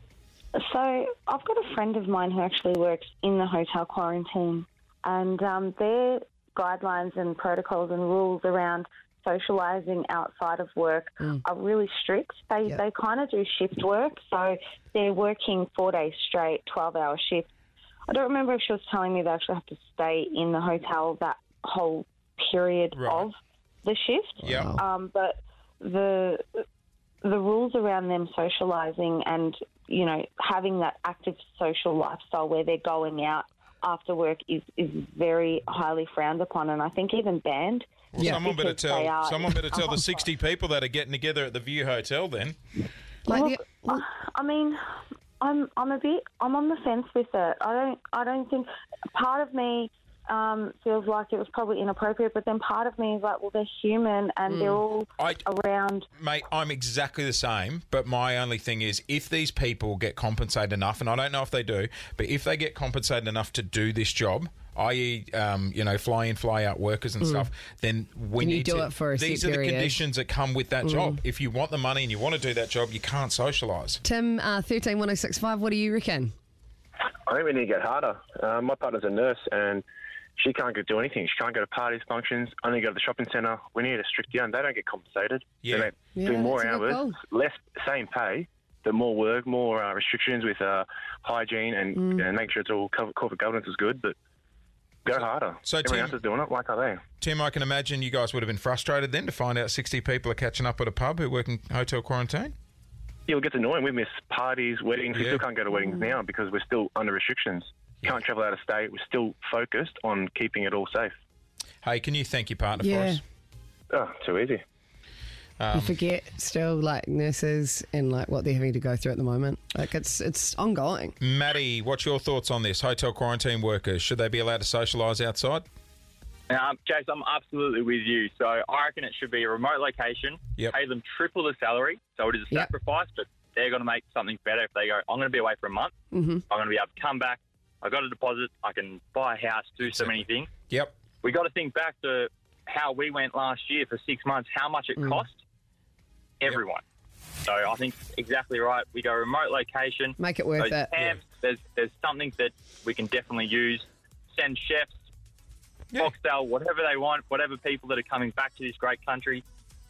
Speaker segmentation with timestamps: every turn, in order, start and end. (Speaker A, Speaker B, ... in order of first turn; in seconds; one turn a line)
Speaker A: 0.5-17.5
Speaker A: 18.1-26.4
Speaker B: 22.9-23.3
Speaker B: 24.4-24.7
Speaker C: 24.4-24.8
Speaker A: 27.2-40.1
Speaker B: 38.1-42.6
Speaker C: 43.3-44.0
Speaker A: 43.3-56.1
Speaker C: 54.5-54.8
Speaker B: 55.2-55.5
Speaker B: 56.2-74.0
Speaker C: 67.2-67.5
Speaker C: 68.4-70.0
Speaker C: 70.8-71.2
Speaker C: 74.0-76.3
Speaker D: 77.3-79.8
Speaker D: 80.4-94.1
Speaker B: 85.6-85.9
Speaker C: 86.1-87.2
Speaker C: 92.0-92.2
Speaker D: 95.0-97.0
Speaker B: 95.1-96.2
Speaker B: 97.2-102.5
Speaker D: 103.3-111.1
Speaker B: 105.1-105.4
Speaker B: 111.8-113.2
Speaker C: 112.8-113.2
Speaker D: 113.9-114.6
Speaker B: 115.6-116.0
Speaker C: 115.7-121.1
Speaker B: 121.2-125.6
Speaker E: 126.5-135.9
Speaker C: 136.1-136.4
Speaker E: 136.5-140.5
Speaker B: 139.8-141.0
Speaker E: 141.2-145.3
Speaker E: 146.4-146.8
Speaker E: 147.4-154.9
Speaker C: 150.2-151.0
Speaker E: 156.0-159.4